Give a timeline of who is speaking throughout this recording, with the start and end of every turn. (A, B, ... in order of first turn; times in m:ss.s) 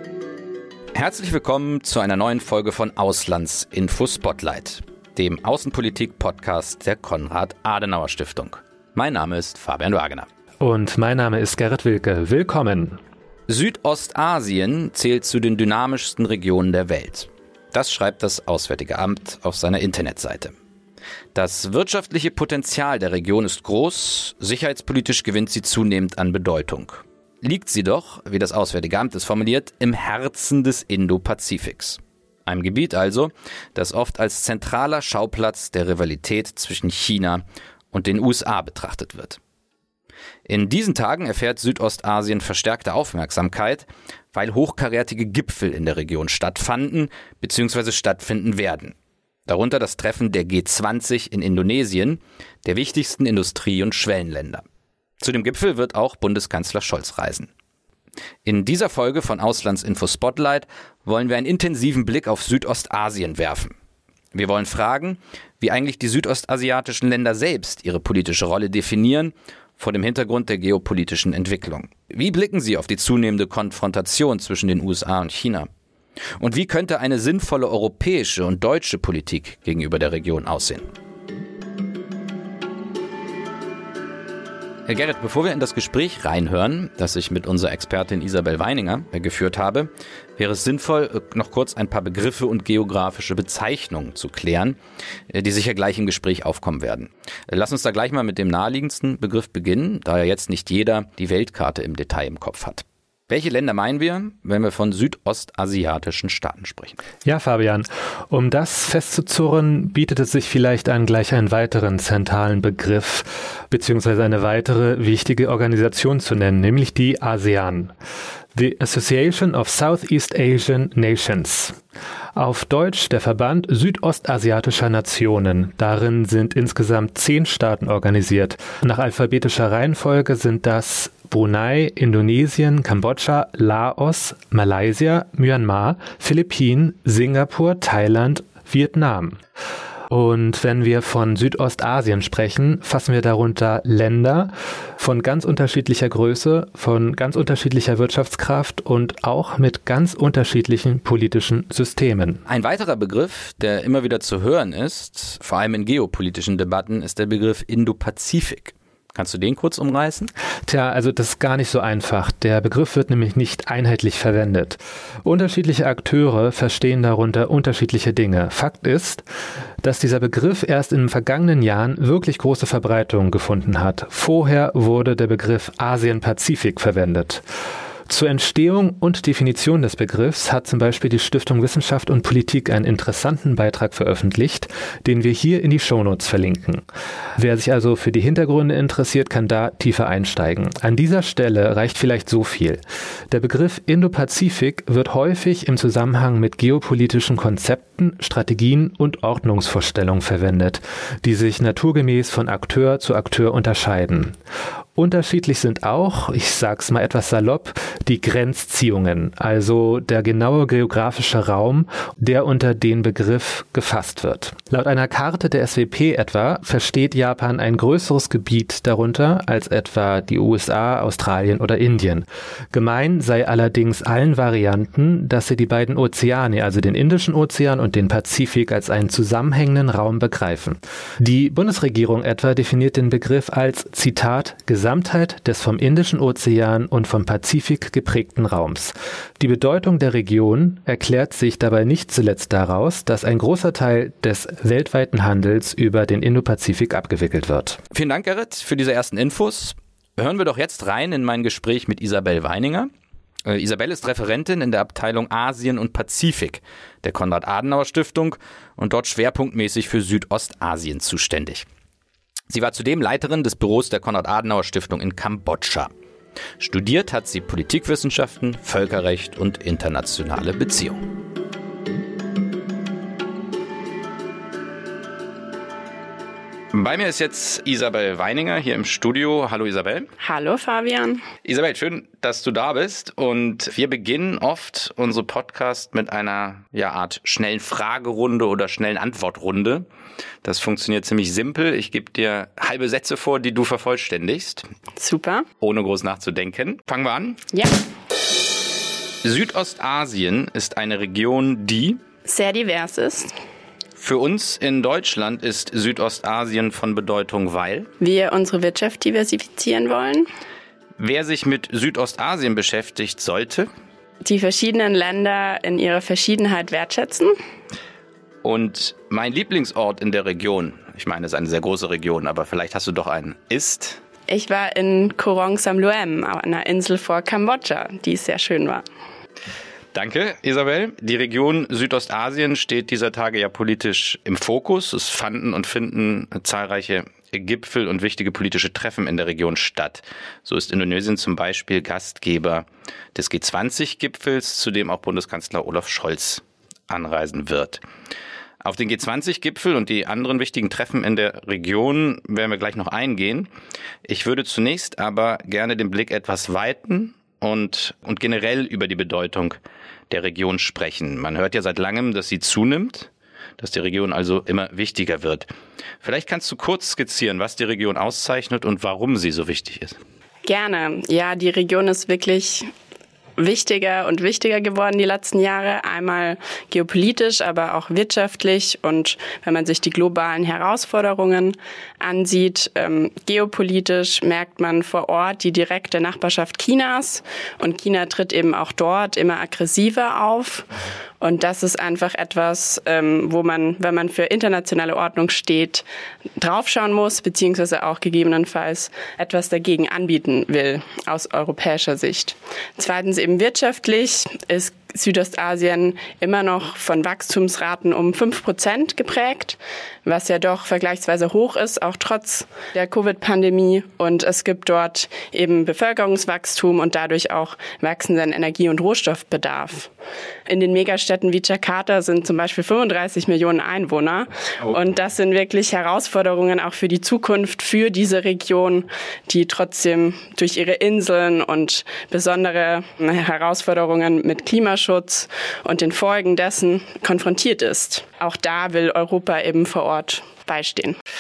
0:00.9-0:10.3 A
0:10.6-0:13.0 B
0:13.5-0:20.5 A
0:21.3-0:39.4 A
0:40.4-0:48.9 A
0:49.5-0:54.6 A
0:55.2-0:57.5 A
0:58.4-1:03.7 A
1:04.3-1:15.7 A
1:16.4-1:20.9 A
1:24.9-1:34.8 A
1:35.3-1:47.0 A
1:47.2-1:57.9 B
1:58.5-2:01.8 B
2:02.3-2:19.4 B
2:20.1-2:32.4 B
2:32.5-2:40.3 A
2:40.6-2:49.2 B
2:49.8-2:57.4 B
2:58.1-3:06.8 B
3:07.4-3:24.4 B
3:25.0-4:07.8 B
4:07.9-4:12.9 A
4:13.4-4:21.7 A
4:22.5-4:25.9 A
4:26.6-4:31.0 A
4:36.7-4:40.1 A
4:40.2-4:41.2 C
4:41.4-4:49.8 A
4:50.4-4:54.7 A
4:55.0-4:55.4 C
4:55.6-4:57.4 A
4:59.2-5:02.0 A
5:02.2-5:03.3 C
5:04.0-5:07.9 A
5:08.0-5:10.3 C
5:11.0-5:13.7 A
5:14.2-5:17.3 C
5:18.4-5:24.0 A
5:24.3-5:28.8 C
5:29.9-5:47.8 A
5:48.6-5:53.5 A
5:54.0-5:59.6 A
6:00.1-6:05.5 A
6:06.0-6:10.0 A
6:10.4-6:12.7 C
6:13.4-6:30.7 C
6:31.2-6:35.8 C
6:36.4-6:59.9 C
7:00.5-7:21.0 C